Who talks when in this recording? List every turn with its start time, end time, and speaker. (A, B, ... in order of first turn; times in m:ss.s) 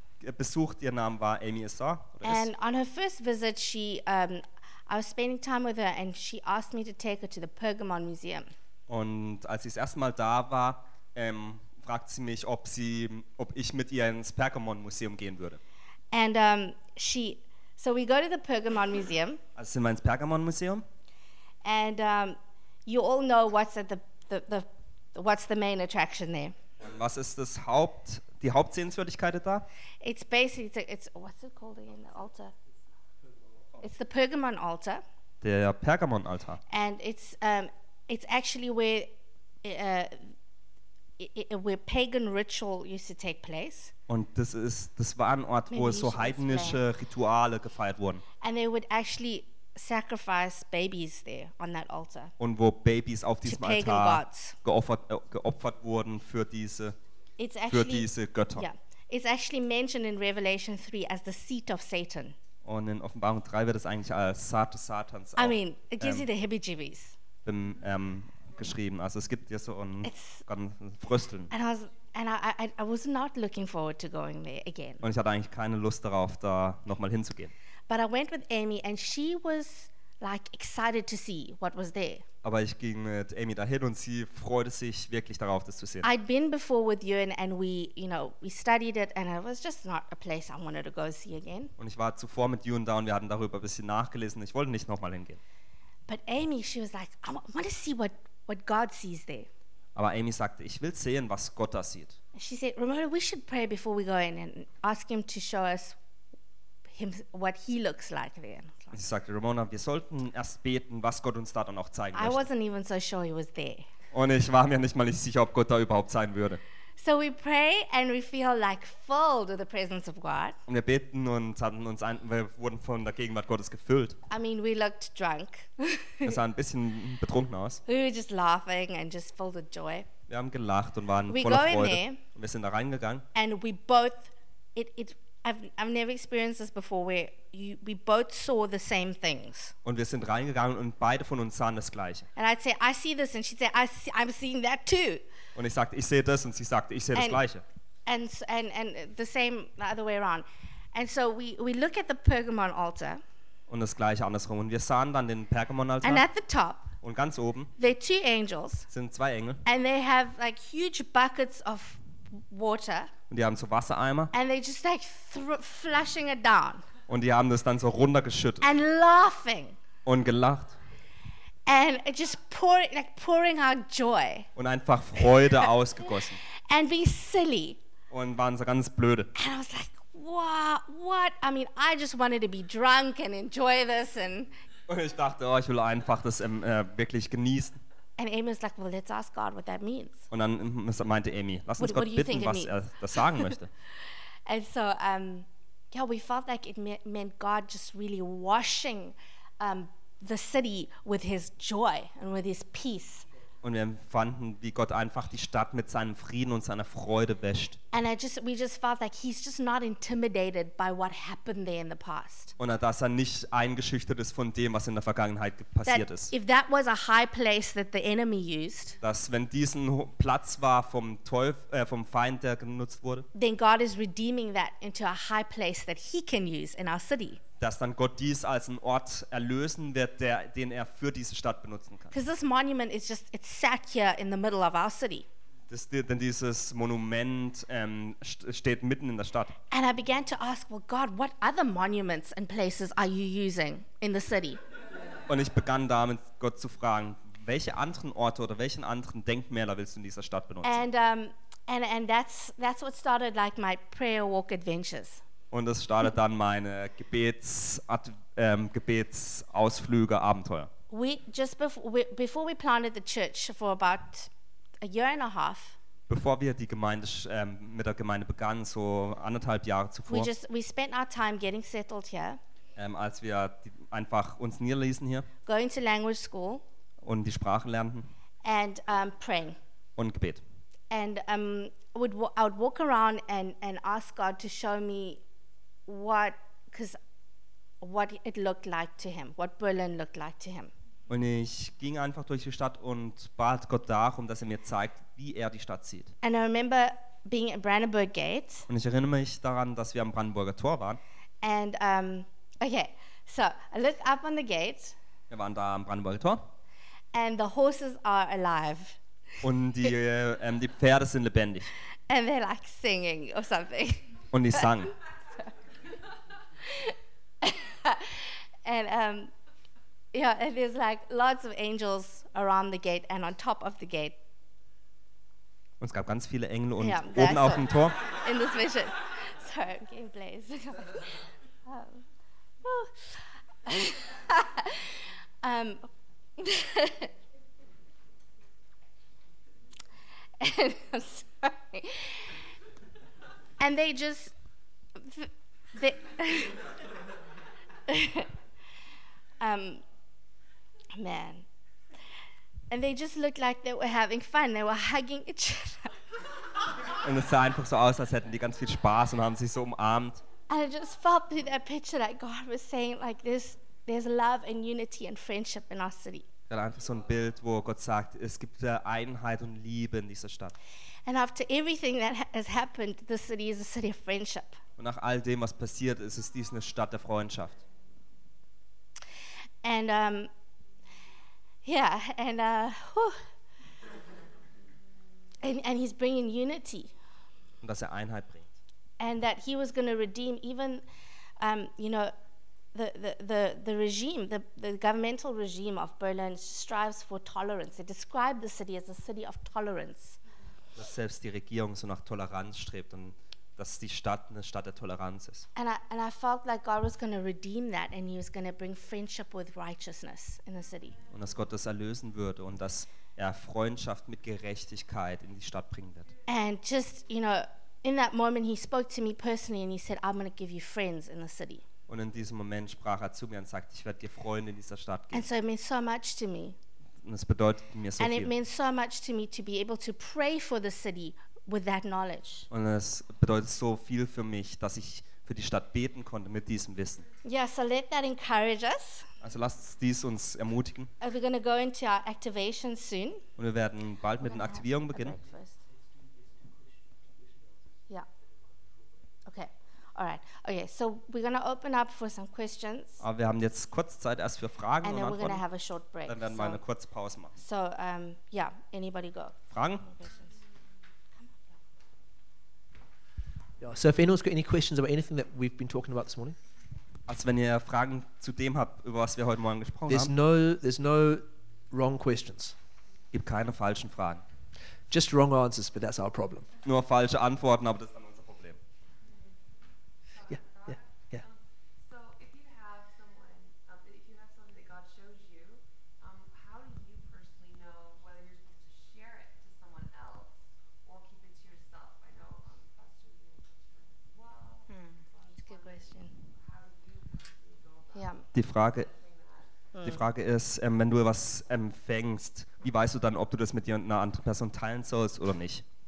0:00.2-0:02.5 A
0:02.2-0:08.5 B
0:08.9-0:15.6 A
0:16.1-0:19.4 B
0:19.6-0:20.8 A
0:21.6-0:26.5 B
0:26.8-0:29.7 A
0:30.0-0:32.5 B
0:33.8-0:35.0 B
0:35.4-0:36.6 A
0:36.7-0:39.1 B
0:39.6-0:40.3 B
0:41.2-0:43.9 B
0:44.1-0:48.2 A
0:45.7-0:46.8 B
0:48.4-0:52.3 B
0:52.4-0:57.0 A
0:53.4-0:54.6 B
0:57.4-1:02.4 B
0:57.7-0:58.7 A
1:02.6-1:06.3 A
1:05.4-1:07.2 B
1:07.4-1:11.5 A
1:10.0-1:10.4 B
1:11.5-1:15.0 B
1:15.0-1:17.5 A
1:17.9-1:22.2 B
1:22.4-1:26.1 A
1:26.0-1:31.7 B
1:31.8-1:35.4 A
1:36.1-1:39.5 B
1:40.0-1:42.2 A
1:42.4-1:46.0 B
1:46.9-1:49.0 B
1:48.9-1:52.4 A
1:52.1-1:53.9 B
1:54.1-1:56.6 A
1:57.0-2:00.6 B
2:00.7-2:04.2 A
2:04.3-2:06.4 B
2:06.2-2:07.8 A
2:07.9-2:10.1 B
2:10.3-2:13.3 A
2:11.3-2:12.2 B
2:13.3-2:19.7 B
2:19.8-2:22.3 A
2:22.4-2:25.2 B
2:25.6-2:27.6 A
2:27.2-2:27.4 B
2:28.1-2:33.2 B
2:33.7-2:36.3 A
2:36.0-2:36.9 B
2:37.0-2:37.7 A
2:37.8-2:38.9 B
2:38.9-2:39.6 A
2:39.6-2:43.1 B
2:43.3-2:44.3 A
2:44.3-2:46.8 B
2:47.1-2:48.7 A
2:48.6-2:49.8 B
2:50.1-2:50.8 A
2:51.7-2:54.5 B
2:54.6-2:56.4 A
2:56.5-2:57.8 B
2:58.1-2:59.3 A
2:59.4-3:04.5 B
3:04.9-3:07.8 A
3:08.2-3:10.2 B
3:10.3-3:13.7 A
3:11.8-3:13.3 B
3:14.5-3:23.3 B
3:23.6-3:27.8 A
3:27.9-3:32.5 B
3:32.6-3:36.3 A
3:35.9-3:39.0 B
3:39.0-3:43.3 A
3:43.3-3:47.4 B
3:47.6-3:52.1 A
3:52.1-3:55.3 B
3:55.7-3:59.6 A
3:59.7-4:04.6 B
4:05.3-4:10.8 A
4:10.6-4:15.2 B
4:15.5-4:20.7 A
4:20.9-4:24.3 B
4:24.8-4:25.8 B
4:26.1-4:30.3 A
4:30.1-4:32.4 B
4:32.8-4:35.3 A
4:35.5-4:36.6 B
4:37.0-4:38.1 A
4:38.4-4:39.6 B
4:40.0-4:40.4 A
4:40.9-4:45.2 B
4:45.9-4:47.0 B
4:47.8-4:50.7 B
4:51.1-4:56.1 A
4:56.2-4:58.7 B
4:58.7-5:01.0 A
5:01.4-5:05.0 B
5:05.3-5:06.4 A
5:07.1-5:09.0 B
5:09.4-5:11.7 A
5:12.1-5:14.2 B
5:14.3-5:14.9 A
5:16.6-5:19.3 B
5:20.1-5:24.2 B
5:25.8-5:28.0 A
5:26.8-5:32.0 B
5:32.6-5:35.9 B
5:36.4-5:37.1 B
5:40.4-5:42.4 B
5:43.6-5:44.3 B
5:45.0-5:46.6 B
5:47.9-5:48.3 B
5:49.4-5:49.8 B
5:50.9-5:51.5 B
5:52.7-5:56.0 B
5:56.9-6:00.2 A
6:00.5-6:06.3 B
6:06.5-6:10.6 A
6:11.1-6:14.6 B
6:14.8-6:17.6 A
6:19.6-6:20.3 B
6:21.6-6:23.2 B
6:25.4-6:26.9 B
6:27.6-6:28.5 A
6:29.0-6:30.8 B
6:31.4-6:32.1 B
6:32.7-6:40.2 B
6:40.8-6:45.5 A
6:45.6-6:51.0 B
6:51.1-6:56.1 A
6:56.3-7:01.6 B
7:01.9-7:05.3 A
7:05.1-7:06.6 B
7:07.0-7:08.3 A
7:08.0-7:12.5 B
7:12.5-7:17.0 A
7:17.2-7:19.1 B
7:19.2-7:20.9 A
7:21.0-7:23.2 B
7:23.4-7:25.2 A
7:24.2-7:25.6 B
7:26.0-7:27.6 C
7:28.3-7:28.9 C
7:29.3-7:33.0 B
7:33.0-7:35.4 A
7:34.8-7:36.6 B
7:36.1-7:37.4 A
7:37.4-7:40.3 B
7:39.5-7:39.9 A
7:43.6-7:46.4 C
7:47.1-7:50.1 A
7:49.9-7:52.6 C
7:53.1-7:54.2 A
7:54.9-7:56.5 C
7:56.6-7:58.6 A
7:59.0-7:59.5 D
8:00.1-8:19.5 D
8:00.3-8:01.2 C
8:14.7-8:16.1 B
8:17.9-8:18.2 B
8:18.3-8:18.9 A
8:19.7-8:20.1 B
8:19.8-8:25.6 A